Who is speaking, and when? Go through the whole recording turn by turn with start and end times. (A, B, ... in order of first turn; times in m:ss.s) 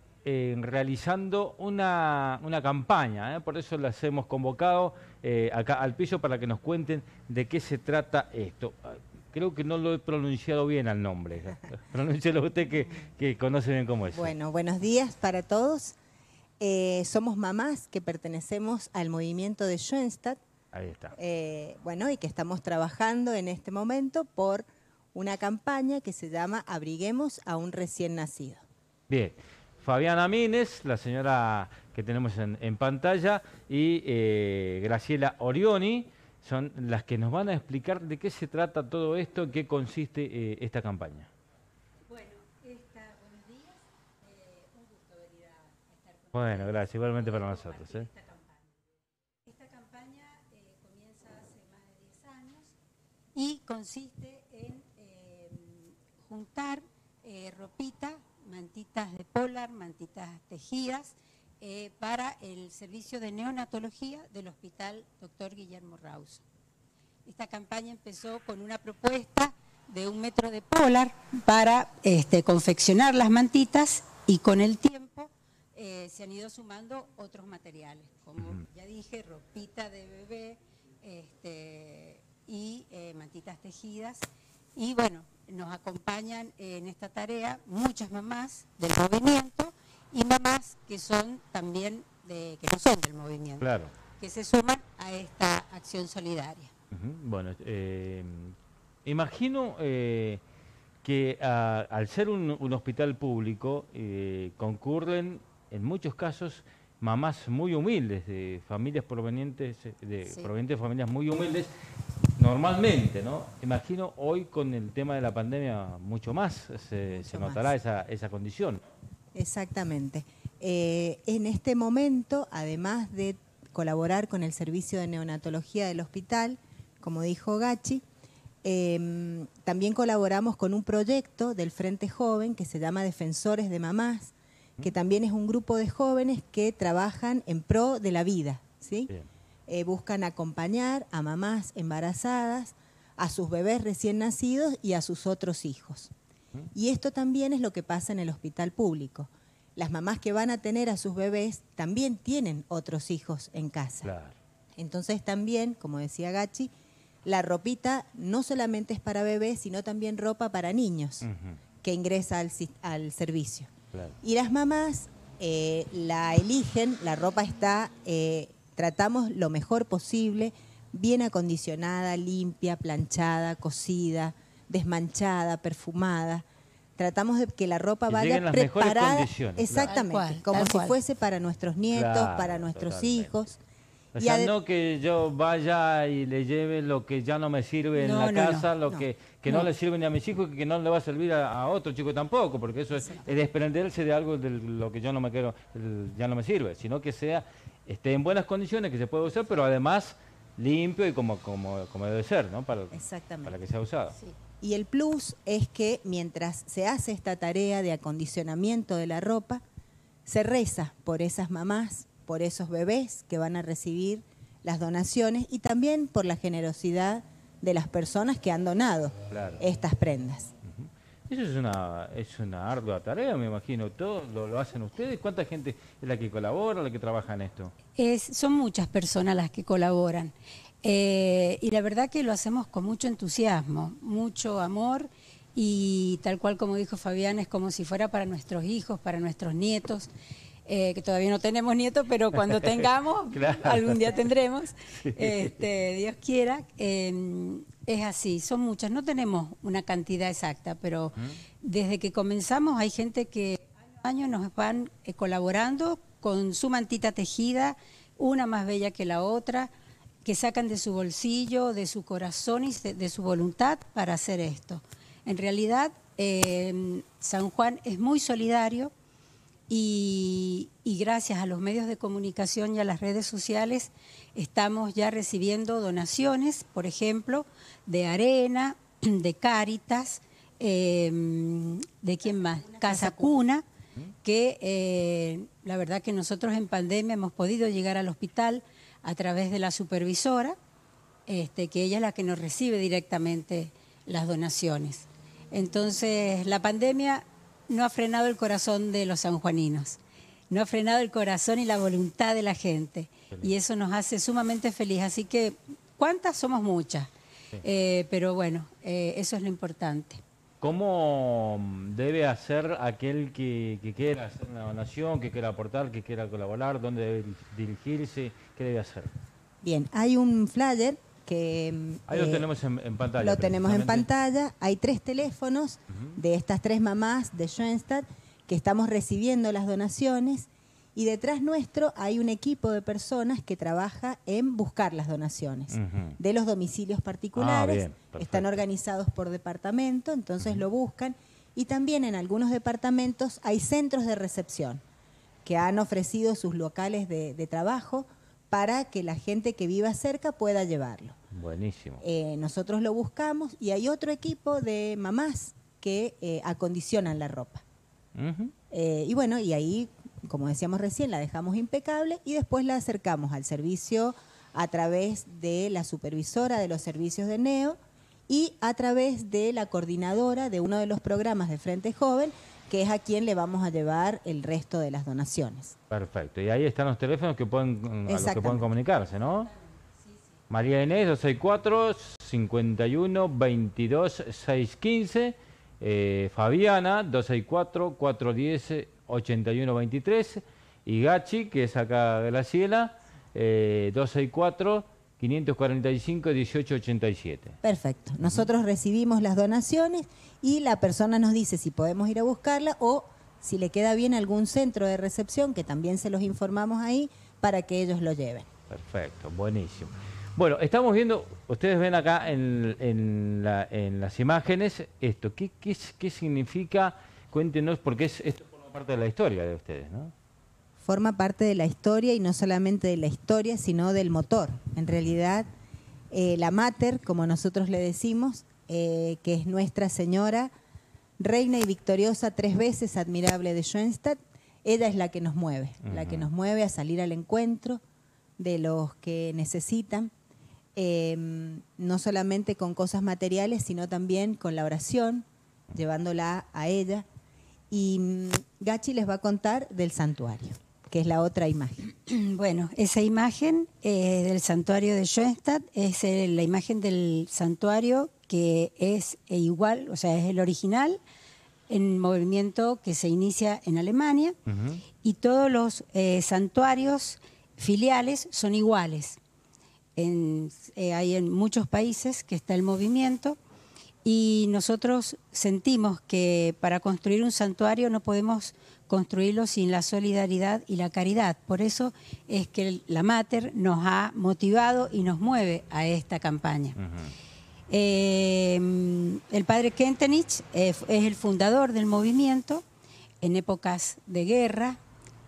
0:00.2-0:14.3 A
0:14.1-0:16.0 B
0:16.6-0:20.4 B
0:20.7-0:21.2 A
0:21.1-0:28.6 B
0:29.1-0:41.3 A
0:42.1-0:48.8 C
0:46.3-0:48.1 A
0:49.4-0:52.8 C
0:53.4-1:06.4 C
1:07.3-1:33.7 C
1:18.4-1:18.6 A
1:33.6-1:33.9 A
1:34.2-1:36.7 C
1:36.9-1:40.4 A
1:41.0-1:51.7 A
1:50.2-1:50.5 C
1:52.4-1:58.8 A
1:57.1-1:57.8 B
1:59.4-2:08.0 B
2:08.6-2:19.1 B
2:19.7-2:26.1 B
2:26.7-2:34.1 B
2:34.0-2:34.4 A
2:34.8-2:36.7 B
2:37.2-2:41.3 B
2:41.2-2:41.6 A
2:41.8-2:43.7 B
2:44.2-2:56.4 B
2:57.0-3:03.6 B
2:58.1-3:00.0 A
2:59.9-3:01.0 C
3:01.9-3:03.3 A
3:04.1-3:24.2 A
3:04.2-3:04.5 B
3:08.0-3:08.7 C
3:22.9-3:23.6 B
3:24.6-3:29.6 B
3:30.3-3:40.5 B
3:39.3-3:39.6 A
3:40.6-3:47.7 A
3:48.0-4:00.1 C
4:00.7-4:19.7 C
4:03.3-4:04.3 A
4:05.0-4:05.5 A
4:20.2-4:28.9 C
4:29.7-4:43.6 C
4:42.6-4:43.4 B
4:44.2-4:50.6 C
4:51.3-5:00.0 C
5:00.5-5:07.1 C
5:07.6-5:10.2 C
5:10.6-5:19.1 A
5:19.6-5:22.5 B
5:22.1-5:24.1 A
5:23.2-5:44.8 B
5:35.7-5:36.2 A
5:37.4-5:38.6 A
5:45.4-5:51.2 B
5:51.3-5:52.0 A
5:52.0-5:57.6 B
5:58.2-5:58.5 A
5:58.7-6:07.8 B
6:08.3-6:15.8 B
6:15.9-6:19.5 A
6:18.1-6:18.7 B
6:20.5-6:37.6 A
6:37.6-6:48.5 B
6:48.7-7:00.1 A
7:00.8-7:05.5 B
7:06.1-7:10.5 B
7:11.2-7:17.8 B
7:15.8-7:16.3 A
7:18.4-7:20.1 B
7:20.8-7:27.1 B
7:27.7-7:31.8 B
7:32.0-7:41.0 C
7:41.7-7:44.4 C
7:44.5-7:44.8 A
7:45.0-7:49.2 C
7:50.0-7:53.4 C
7:54.0-8:06.8 C
8:06.8-8:07.1 A
8:07.7-8:12.6 C
8:13.2-8:14.8 C